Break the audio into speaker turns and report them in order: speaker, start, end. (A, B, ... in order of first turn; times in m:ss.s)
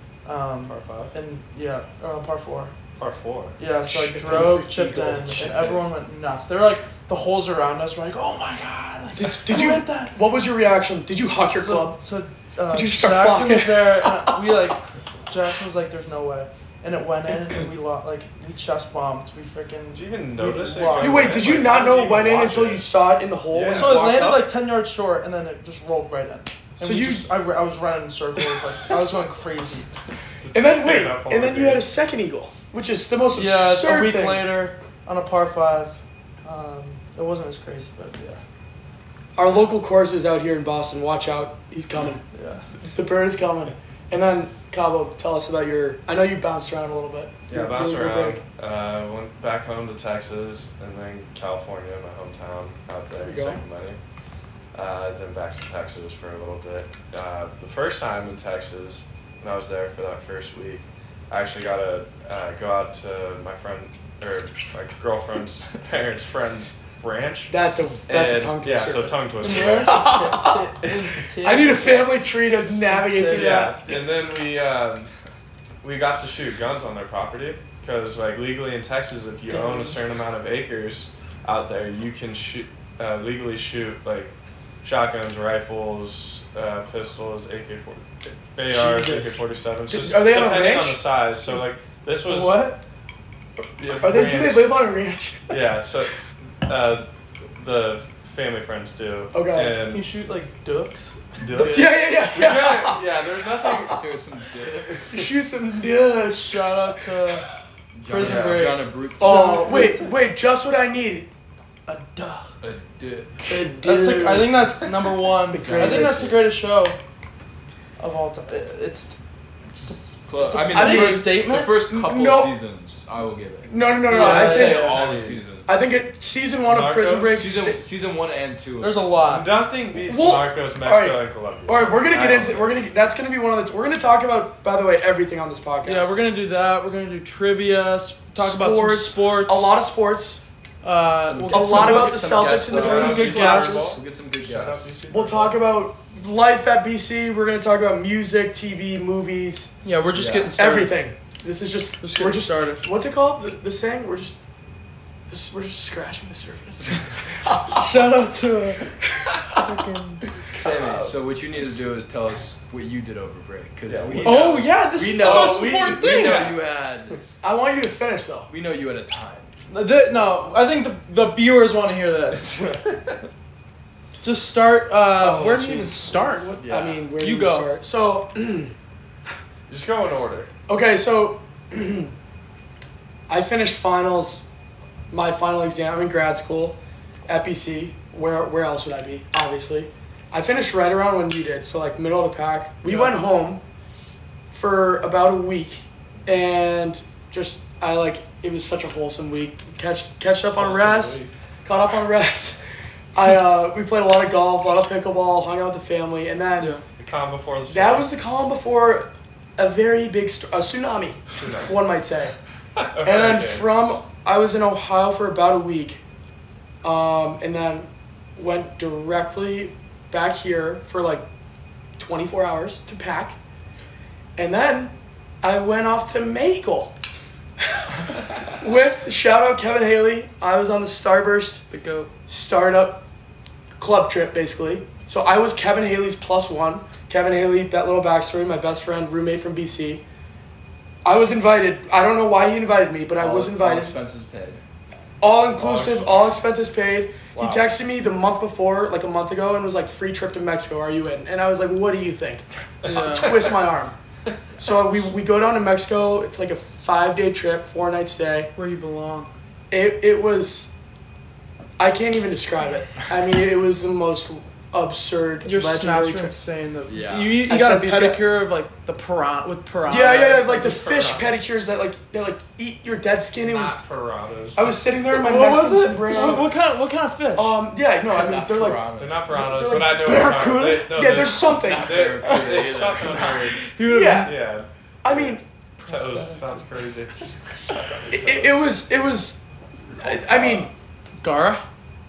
0:00.2-0:02.7 A
0:00.6-0:01.2 B
0:03.0-0:03.6 B
0:03.6-0:10.2 A
0:03.8-0:05.5 C
0:05.2-0:05.8 D
0:09.2-0:12.0 C
0:11.5-0:21.8 A
0:12.7-0:14.4 C
0:19.9-0:22.8 B
0:21.0-0:24.3 C
0:23.5-0:24.2 B
0:23.7-0:29.9 A
0:26.8-0:27.3 C
0:30.4-0:31.9 B
0:30.5-0:34.6 C
0:33.4-0:38.4 A
0:39.4-0:42.2 C
0:42.3-0:42.7 A
0:42.9-0:48.4 C
0:47.5-0:54.0 B
0:53.1-0:53.6 C
0:54.7-1:07.5 B
1:07.5-1:10.7 C
1:08.1-1:10.1 B
1:09.4-1:12.3 A
1:11.4-1:14.0 C
1:12.9-1:13.8 A
1:13.3-1:15.1 B
1:15.8-1:32.6 B
1:19.5-1:20.0 C
1:28.7-1:31.6 C
1:32.3-1:32.8 A
1:33.8-1:34.7 B
1:34.0-1:35.5 C
1:35.5-1:40.1 B
1:39.3-1:39.8 C
1:39.9-1:41.9 A
1:41.4-1:44.0 B
1:41.7-1:43.0 C
1:43.6-1:44.0 C
1:43.9-1:45.2 D
1:45.0-1:47.0 C
1:46.4-1:47.4 A
1:47.9-1:49.6 D
1:48.1-1:50.2 A
1:48.2-1:48.7 B
1:49.2-1:51.3 C
1:51.9-1:52.5 A
1:52.6-1:53.7 D
1:53.5-1:54.7 C
1:53.8-1:57.0 A
1:55.5-1:56.4 C
1:55.6-1:56.4 D
1:58.0-1:59.2 A
1:59.7-2:05.7 D
2:00.4-2:01.7 A
2:00.7-2:02.5 C
2:03.7-2:05.0 C
2:04.1-2:05.0 A
2:04.2-2:05.4 B
2:05.6-2:07.8 C
2:06.7-2:07.4 B
2:07.4-2:09.1 D
2:08.8-2:09.5 A
2:09.2-2:12.8 B
2:10.0-2:16.2 C
2:15.8-2:19.8 A
2:18.4-2:20.4 C
2:20.8-2:24.0 A
2:21.2-2:24.9 D
2:21.5-2:23.9 C
2:22.7-2:25.6 B
2:25.1-2:29.7 C
2:29.8-2:31.0 A
2:30.1-2:30.6 D
2:30.6-2:34.4 C
2:32.0-2:32.8 A
2:35.3-2:38.1 C
2:37.7-2:39.0 A
2:39.6-2:40.2 A
2:40.5-2:47.2 D
2:40.6-2:41.1 B
2:43.9-2:46.5 B
2:44.2-2:46.6 A
2:47.4-2:48.5 C
2:48.5-2:49.5 D
2:49.7-2:52.8 A
2:54.2-2:56.6 A
2:55.1-2:58.7 C
2:56.6-2:57.1 D
2:57.2-2:57.7 A
2:59.7-3:00.5 B
3:00.7-3:02.1 C
3:03.3-3:04.4 C
3:05.1-3:13.6 C
3:14.5-3:22.6 C
3:20.6-3:21.3 B
3:23.2-3:26.8 C
3:27.0-3:28.1 B
3:27.7-3:32.4 C
3:31.3-3:31.8 B
3:32.8-3:33.7 B
3:33.0-3:36.0 C
3:36.8-3:41.2 C
3:42.0-3:43.4 C
3:44.4-3:46.9 C
3:48.6-3:51.7 C
3:51.7-3:52.1 A
3:52.3-3:53.0 C
3:53.8-4:00.0 C
4:01.0-4:04.0 C
4:03.2-4:04.6 D
4:05.2-4:14.0 C
4:05.6-4:06.1 B
4:12.8-4:13.3 A
4:14.6-4:18.5 C
4:18.6-4:19.3 A
4:19.7-4:20.7 C
4:21.8-4:26.4 C
4:25.4-4:31.3 A
4:26.9-4:27.4 D
4:27.4-4:28.2 C
4:29.9-4:33.8 C
4:33.4-4:34.6 B
4:34.6-4:36.5 C
4:35.1-4:37.6 A
4:36.2-4:36.4 B
4:37.4-4:42.0 C
4:38.1-4:39.2 D
4:39.0-4:48.7 B
4:39.9-4:41.5 A
4:41.4-4:43.4 D
4:42.2-4:44.4 A
4:43.9-4:44.3 C
4:45.0-4:45.4 C
4:45.8-4:46.7 A
4:48.1-4:49.4 C
4:50.0-4:50.7 C
4:50.0-4:50.7 D
4:51.2-4:51.6 A